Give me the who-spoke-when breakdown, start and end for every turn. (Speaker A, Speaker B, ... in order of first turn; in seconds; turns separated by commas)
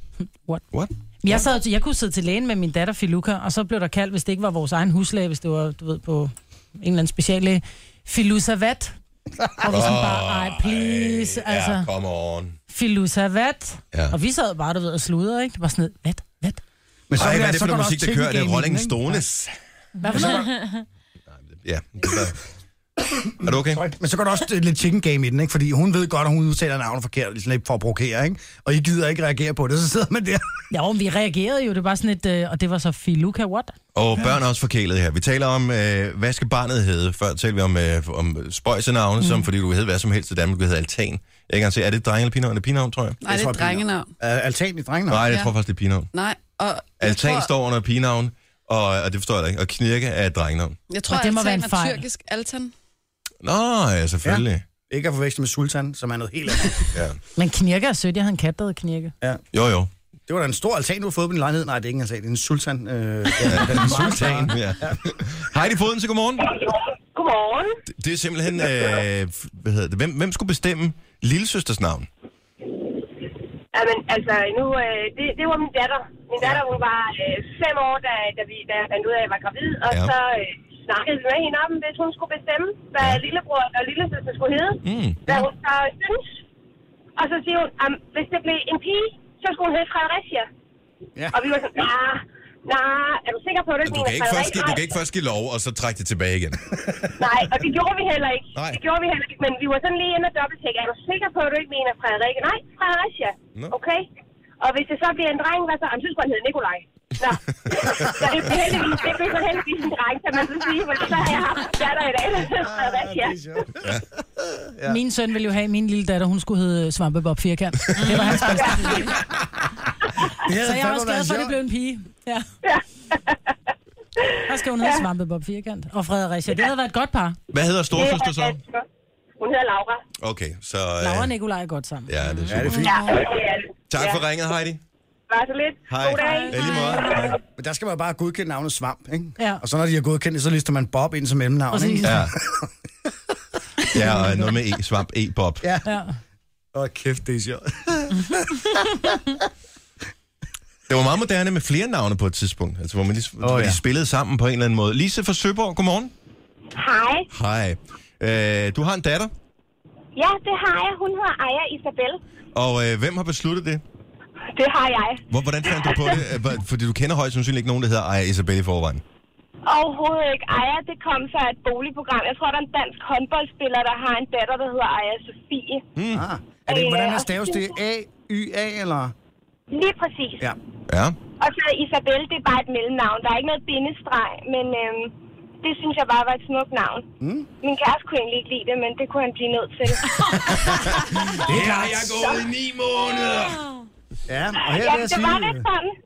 Speaker A: 1.2-9.0, Speaker A: 9.6-11.9, Speaker B: 9.7-12.6, Speaker A: 12.7-16.6, Speaker C: 17.1-19.3, Speaker B: 17.2-19.5, Speaker A: 20.0-20.5, Speaker C: 20.1-20.5, Speaker B: 21.3-22.4, Speaker B: 23.4-23.8, Speaker C: 23.5-30.6, Speaker A: 30.7-33.8, Speaker B: 33.9-43.2, Speaker D: 43.2-44.1, Speaker C: 43.2-45.3, Speaker B: 45.1-46.1, Speaker D: 46.1-47.5, Speaker B: 47.0-50.8, Speaker D: 50.9-52.7, Speaker A: 51.1-52.0, Speaker B: 53.4-54.6, Speaker C: 54.2-56.9, Speaker B: 56.9-57.2, Speaker A: 57.4-59.1, Speaker B: 59.5-59.9, Speaker C: 60.3-65.0, Speaker B: 63.4-66.6, Speaker E: 66.6-67.8, Speaker B: 67.9-72.1, Speaker E: 73.7-86.3, Speaker B: 84.8-85.5, Speaker E: 87.2-90.5, Speaker E: 91.3-95.0, Speaker B: 93.8-96.8, Speaker E: 97.2-104.1, Speaker B: 98.5-98.8, Speaker E: 104.6-113.4, Speaker B: 108.0-108.3, Speaker C: 112.5-113.9, Speaker C: 114.7-115.0, Speaker A: 114.9-119.1, Speaker E: 118.6-119.0, Speaker C: 120.4-121.6, Speaker A: 120.5-122.5, Speaker E: 122.6-123.4, Speaker A: 124.5-127.4, Speaker E: 124.8-125.1, Speaker B: 127.5-128.6, Speaker E: 127.9-128.8, Speaker E: 129.4-130.0, Speaker B: 130.2-131.3, Speaker A: 131.0-132.1, Speaker B: 132.1-132.9, Speaker C: 132.5-133.0, Speaker E: 132.7-134.2, Speaker D: 132.8-133.2, Speaker B: 133.9-134.8, Speaker E: 135.3-137.4, Speaker B: 135.9-137.3, Speaker A: 136.2-137.3, Speaker C: 137.6-142.7, Speaker A: 141.7-142.2, Speaker B: 142.0-142.4, Speaker B: 143.9-145.7, Speaker A: 144.0-144.4, Speaker A: 145.8-146.2, Speaker C: 146.7-149.1, Speaker B: 150.9-156.1, Speaker C: 153.4-153.8, Speaker E: 156.8-157.3, Speaker B: 157.3-159.3, Speaker E: 160.2-162.2, Speaker B: 162.5-163.8, Speaker E: 164.5-166.2, Speaker B: 165.3-169.0, Speaker E: 169.7-175.8, Speaker B: 176.0-176.3, Speaker C: 176.1-179.1, Speaker E: 176.7-177.8, Speaker E: 179.7-180.5, Speaker B: 180.9-181.2, Speaker E: 181.4-187.1, Speaker C: 187.2-187.5, Speaker E: 187.6-192.5, Speaker B: 190.6-193.7, Speaker C: 191.4-192.2, Speaker C: 194.3-195.7, Speaker E: 194.6-195.9